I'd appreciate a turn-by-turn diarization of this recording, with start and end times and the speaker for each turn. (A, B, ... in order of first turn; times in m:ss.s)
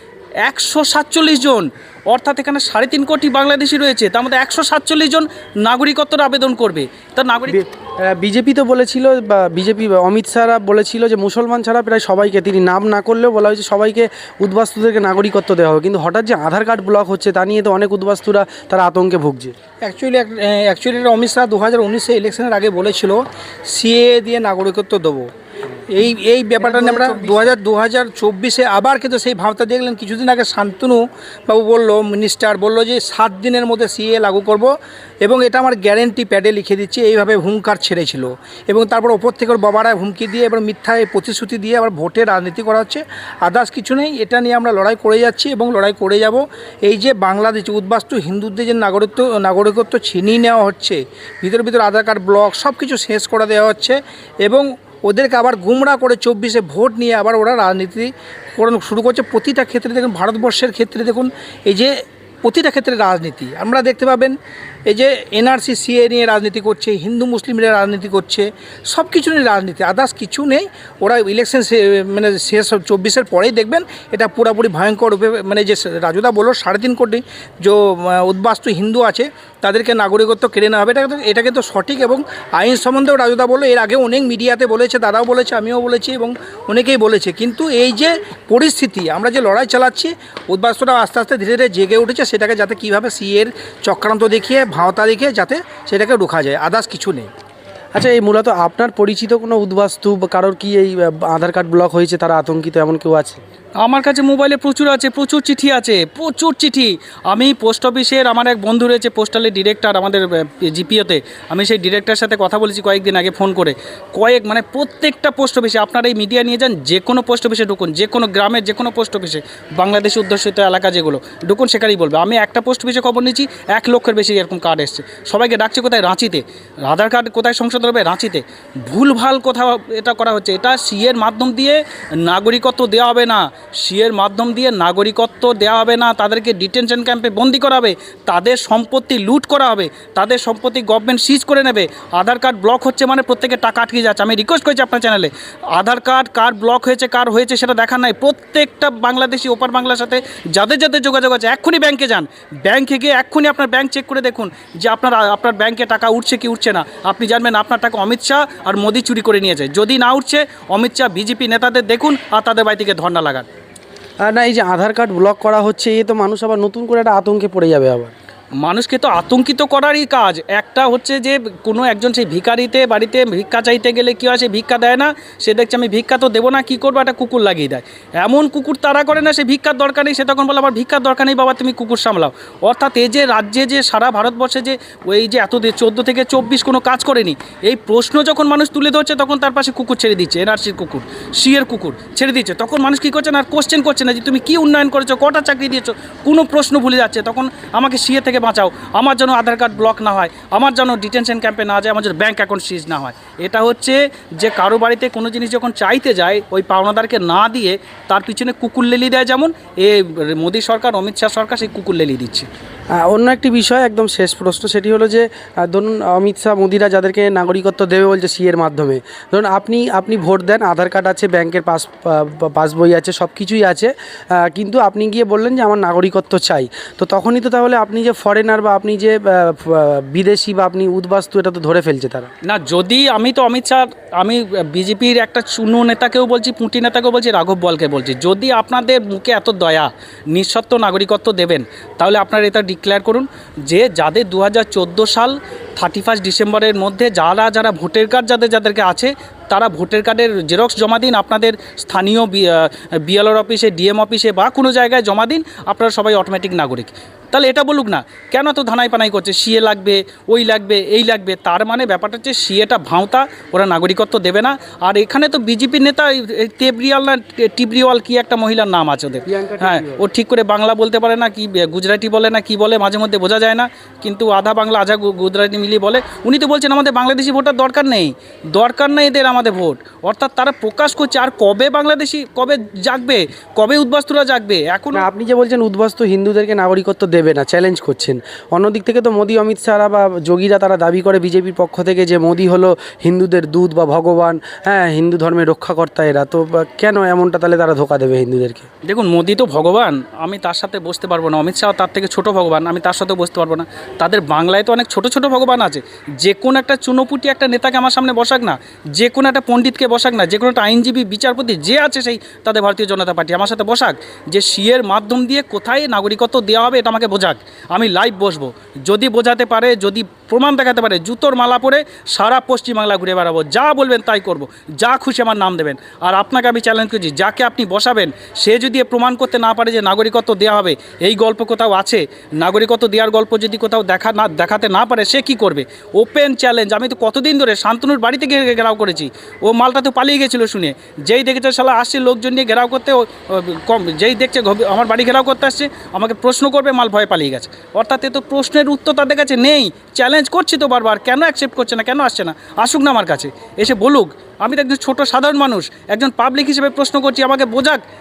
0:00.4-0:07.6 A
0:07.5-0:19.5 B
0:19.8-0:25.3 C
0:25.9-1:04.4 C
0:26.7-0:27.3 B
1:04.9-1:37.3 C
1:37.9-1:43.4 B
1:43.8-2:43.5 A
2:44.2-2:48.1 B
2:48.6-3:32.5 A
3:33.0-3:52.3 B
3:52.4-4:45.1 A
4:29.2-4:30.0 B
4:44.9-4:58.7 B
4:58.8-5:57.8 A